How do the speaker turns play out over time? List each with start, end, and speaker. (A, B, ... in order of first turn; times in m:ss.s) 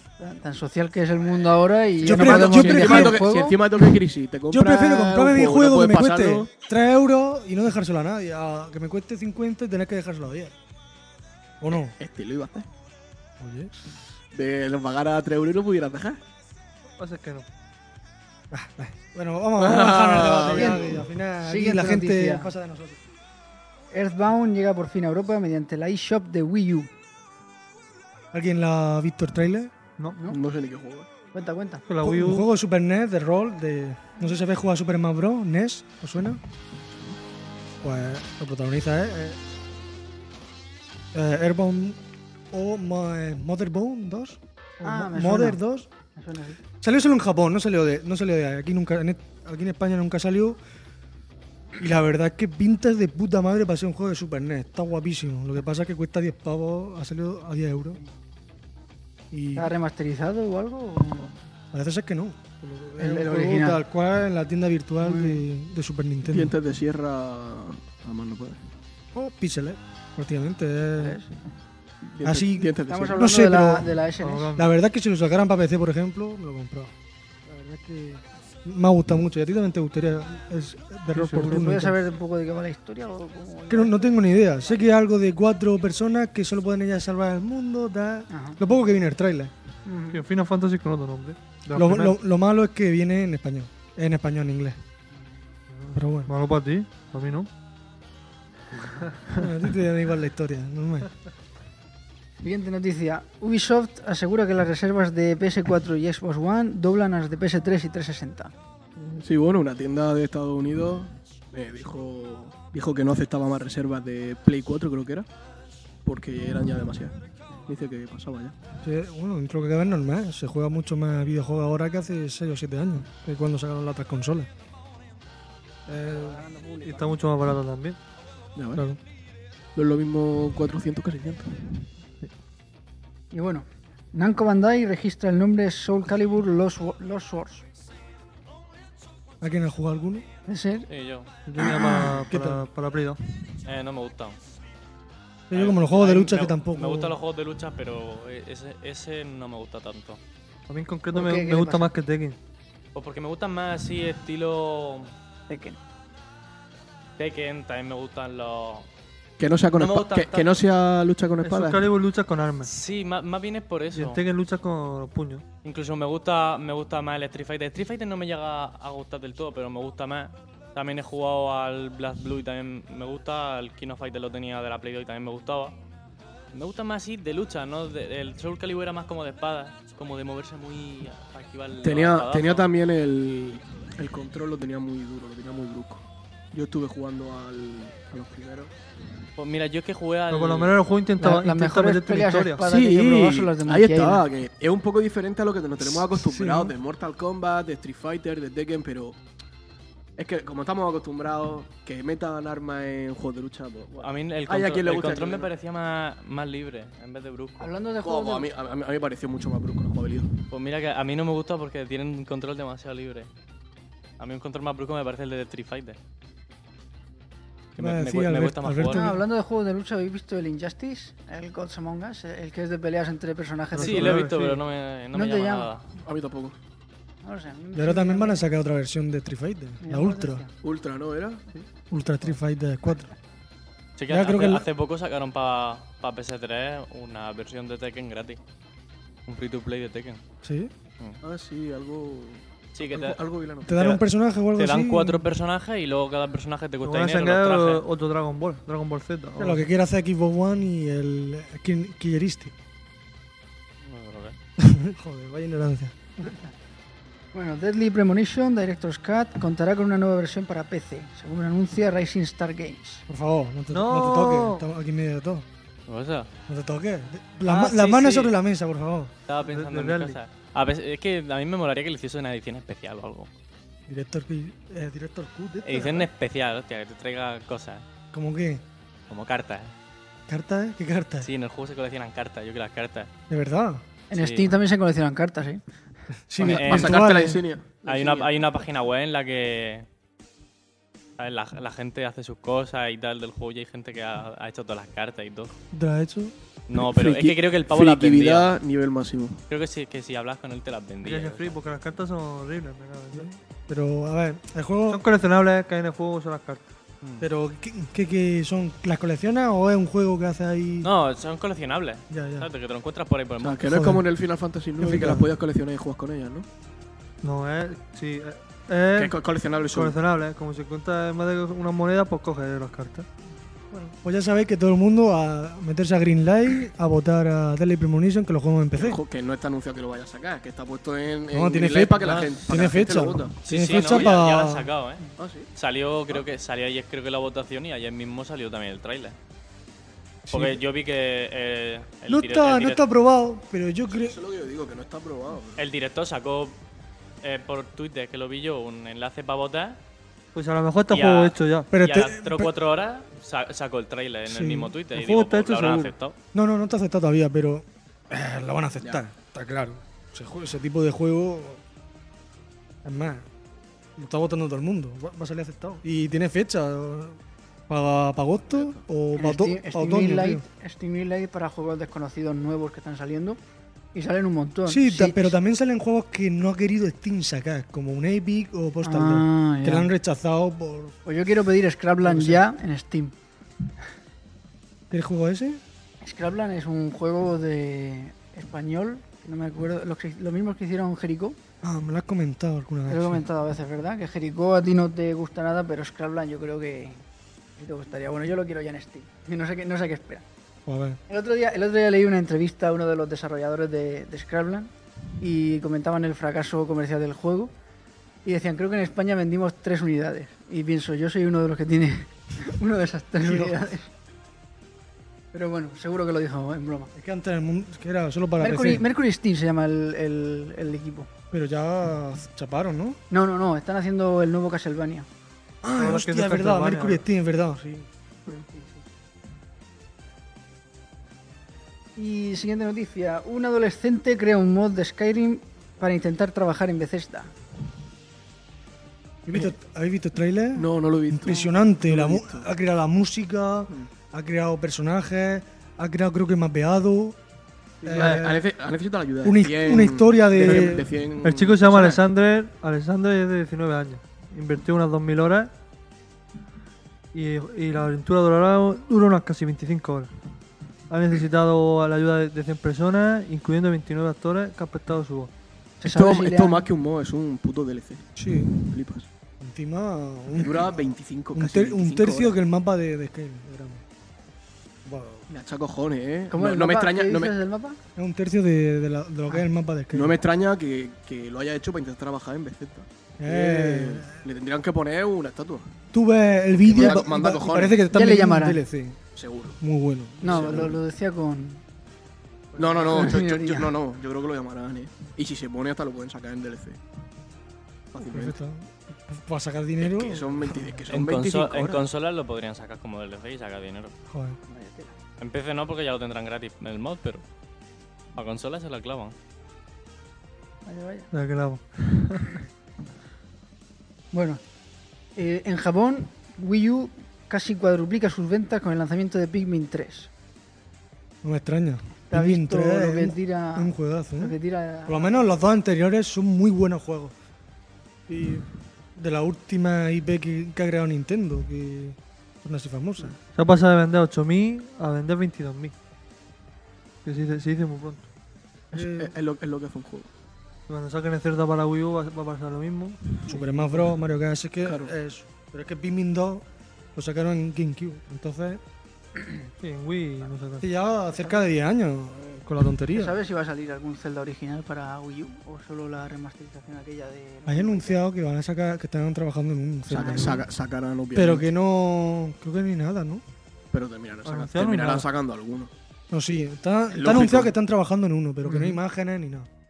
0:00.2-0:03.6 A
0:02.0-0:03.3 B
0:02.0-0:06.5 C
0:04.5-0:10.6 B
0:04.7-0:05.2 A
0:11.6-0:12.0 B
0:11.8-0:12.7 C
0:13.4-0:13.9 B
0:14.3-0:16.2 C
0:17.0-0:17.5 D
0:18.5-0:23.0 B
0:19.6-0:21.0 C
0:20.5-0:20.9 A
0:21.4-0:22.5 A
0:23.9-0:26.9 A
0:28.3-0:29.7 B
0:30.3-0:31.1 C
0:31.3-0:31.8 A
0:31.9-0:32.5 D
0:32.0-0:36.4 B
0:37.8-0:39.4 B
0:41.1-0:45.9 B
0:44.8-0:45.6 A
0:46.2-0:46.6 A
0:46.8-0:50.6 B
0:51.8-0:58.0 B
0:59.3-0:59.7 B
0:59.6-1:01.4 A
1:01.7-1:06.6 B
1:03.0-1:03.8 A
1:05.0-1:05.4 A
1:06.3-1:08.7 C
1:09.1-1:11.2 B
1:11.0-1:11.3 A
1:12.2-1:13.2 C
1:12.2-1:13.9 B
1:12.9-1:14.6 A
1:14.2-1:14.7 D
1:14.6-1:16.9 B
1:17.5-1:22.0 B
1:21.2-1:21.7 D
1:21.3-1:24.8 A
1:23.7-1:29.5 B
1:28.3-1:28.6 A
1:29.9-1:30.2 A
1:30.1-1:32.2 D
1:31.7-1:34.8 B
1:35.7-1:37.5 D
1:35.9-1:36.3 B
1:38.9-1:39.4 D
1:39.3-1:41.1 B
1:42.4-1:48.5 A
1:49.0-1:55.3 C
1:56.0-1:57.2 C
1:57.7-1:58.6 C
1:58.8-2:04.5 B
2:05.9-2:06.4 B
2:05.9-2:07.2 A
2:06.8-2:08.0 D
2:08.6-2:08.8 C
2:08.8-2:09.0 B
2:09.8-2:11.8 C
2:13.3-2:17.6 A
2:19.4-2:20.3 B
2:20.5-2:20.9 A
2:20.9-2:21.3 E
2:21.5-2:23.2 D
2:21.6-2:22.7 B
2:21.6-2:22.1 A
2:23.6-2:24.4 E
2:25.5-2:27.2 B
2:25.5-2:30.2 E
2:30.7-2:32.4 D
2:31.1-2:31.9 A
2:32.9-2:35.1 E
2:35.5-2:35.8 A
2:37.2-2:38.9 E
2:39.4-2:41.9 C
2:39.7-2:40.6 E
2:41.4-2:42.7 D
2:42.6-2:44.2 E
2:43.9-2:45.4 D
2:45.6-2:55.8 E
2:56.5-3:02.7 E
3:01.8-3:08.7 C
3:09.4-3:10.8 E
3:10.3-3:12.6 D
3:11.2-3:14.2 A
3:12.6-3:19.2 C
3:15.8-3:16.8 B
3:20.2-3:25.5 C
3:24.0-3:27.7 E
3:27.6-3:28.5 A
3:28.0-3:30.3 C
3:30.5-3:33.3 E
3:34.2-3:36.0 E
3:37.8-3:39.1 E
3:37.8-3:39.2 B
3:38.9-3:44.3 A
3:43.7-3:44.6 D
3:43.8-3:45.9 E
3:45.1-3:45.7 A
3:46.0-3:46.6 C
3:47.2-3:48.5 A
3:47.8-3:50.4 B
3:49.8-3:50.5 A
3:50.6-3:51.5 C
3:51.9-3:53.1 B
3:54.0-3:58.4 E
3:54.1-3:54.7 B
3:59.3-4:00.2 E
4:00.4-4:00.7 B
4:01.2-4:03.8 C
4:02.8-4:04.0 E
4:03.7-4:05.3 B
4:04.6-4:07.8 E
4:06.8-4:09.7 D
4:09.4-4:12.6 B
4:13.8-4:14.4 E
4:14.6-4:16.3 B
4:17.3-4:23.0 A
4:23.1-4:25.5 B
4:23.7-4:24.6 D
4:25.9-4:26.3 E
4:26.5-4:29.1 B
4:27.5-4:27.8 D
4:27.6-4:28.3 E
4:29.3-4:33.3 E
4:29.4-4:30.2 D
4:33.9-4:36.1 B
4:35.6-4:37.8 E
4:38.1-4:38.6 B
4:39.1-4:39.7 E
4:40.3-4:41.3 B
4:41.2-4:43.1 E
4:43.3-4:43.8 B
4:44.1-4:45.6 A
4:44.1-4:44.5 E
4:46.3-4:47.4 B
4:46.4-4:47.0 E
4:46.4-4:48.3 C
4:47.8-4:49.9 E
4:51.2-4:55.6 E
4:55.7-4:56.3 B
4:56.7-4:58.6 E
4:56.8-4:59.4 C
4:59.5-5:01.6 E
5:01.0-5:03.3 D
5:03.1-5:05.0 B
5:04.9-5:06.7 D
5:07.2-5:10.9 B
5:10.8-5:13.6 E
5:12.1-5:12.5 B
5:13.4-5:16.5 C
5:13.7-5:14.0 B
5:14.8-5:15.3 B
5:17.2-5:23.1 D
5:19.0-5:20.0 C
5:23.7-5:29.0 B
5:28.8-5:34.2 C
5:31.3-5:34.7 B
5:32.0-5:32.4 E
5:33.5-5:35.0 E
5:35.2-5:35.5 C
5:35.6-5:39.2 E
5:40.3-5:40.6 B
5:40.3-5:42.8 E
5:42.1-5:44.2 B
5:43.9-5:45.6 C
5:45.6-5:46.6 E
5:47.2-5:49.8 E
5:50.4-5:51.7 D
5:50.9-5:56.2 E
5:51.7-5:52.5 B
5:54.3-5:54.7 B
5:54.9-5:55.9 D
5:56.3-6:01.6 B
6:02.8-6:03.3 B
6:04.0-6:10.4 B
6:08.5-6:08.8 C
6:09.2-6:13.4 A
6:13.9-6:15.4 A
6:14.7-6:21.0 B
6:18.8-6:19.9 A
6:21.0-6:23.2 A
6:22.0-6:22.4 B
6:24.9-6:25.6 B
6:26.0-6:31.4 A
6:31.6-6:33.2 B
6:32.9-6:37.0 A
6:37.6-6:40.2 A
6:40.7-6:41.0 B
6:41.1-6:47.5 A
6:48.2-6:53.9 A
6:53.2-6:53.6 B
6:55.3-6:56.9 A
6:57.0-6:58.8 B
6:58.4-7:01.1 A
7:01.3-7:03.0 B
7:03.1-7:05.1 A
7:05.6-7:07.9 B
7:05.8-7:07.0 D
7:08.3-7:08.7 A
7:12.0-7:17.3 A
7:19.2-7:27.2 B
7:20.6-7:22.5 C
7:27.8-7:32.0 C
7:27.8-7:28.4 B
7:28.0-7:28.2 D
7:29.2-7:30.9 B
7:30.4-7:35.5 D
7:37.1-7:40.1 D
7:40.9-7:45.3 D
7:45.8-7:46.7 A
7:45.8-7:49.1 C
7:48.2-7:48.6 B
7:49.4-7:53.8 B
7:50.4-7:52.4 C
7:54.8-7:55.3 B
7:55.3-7:57.4 C
7:56.3-7:57.8 A
7:58.0-8:00.2 B
7:59.9-8:05.7 C
8:03.2-8:04.2 B
8:05.9-8:09.0 B
8:06.6-8:07.8 C
8:06.8-8:08.6 A
8:09.2-8:09.6 C
8:09.6-8:10.8 B
8:10.2-8:11.6 A
8:10.2-8:10.8 C
8:12.6-8:12.9 D
8:12.6-8:16.8 C
8:12.8-8:13.7 A
8:17.9-8:18.4 C
8:18.0-8:20.7 B
8:19.8-8:21.8 C
8:20.9-8:23.9 E
8:24.1-8:24.4 B
8:24.5-8:24.9 A
8:25.2-8:27.2 E
8:28.2-8:29.2 E
8:30.7-8:31.1 A
8:31.1-8:32.4 D
8:34.1-8:34.4 A
8:35.2-8:40.1 A
8:41.2-8:44.4 B
8:42.1-8:45.2 A
8:44.9-8:47.2 B
8:48.1-8:53.2 B
8:53.3-8:55.7 D
8:57.0-8:58.1 D
8:58.7-8:59.2 B
8:58.7-9:00.1 C
9:00.7-9:03.3 D
9:03.3-9:08.6 B
9:03.3-9:03.5 A
9:04.6-9:04.9 C
9:09.6-9:10.7 D
9:10.6-9:13.2 B
9:11.1-9:11.5 A
9:12.9-9:18.0 A
9:17.5-9:20.5 B
9:19.9-9:21.5 C
9:20.0-9:20.4 A
9:21.1-9:23.2 B
9:23.7-9:25.7 C
9:24.2-9:25.1 D
9:26.1-9:29.5 B
9:26.9-9:27.5 C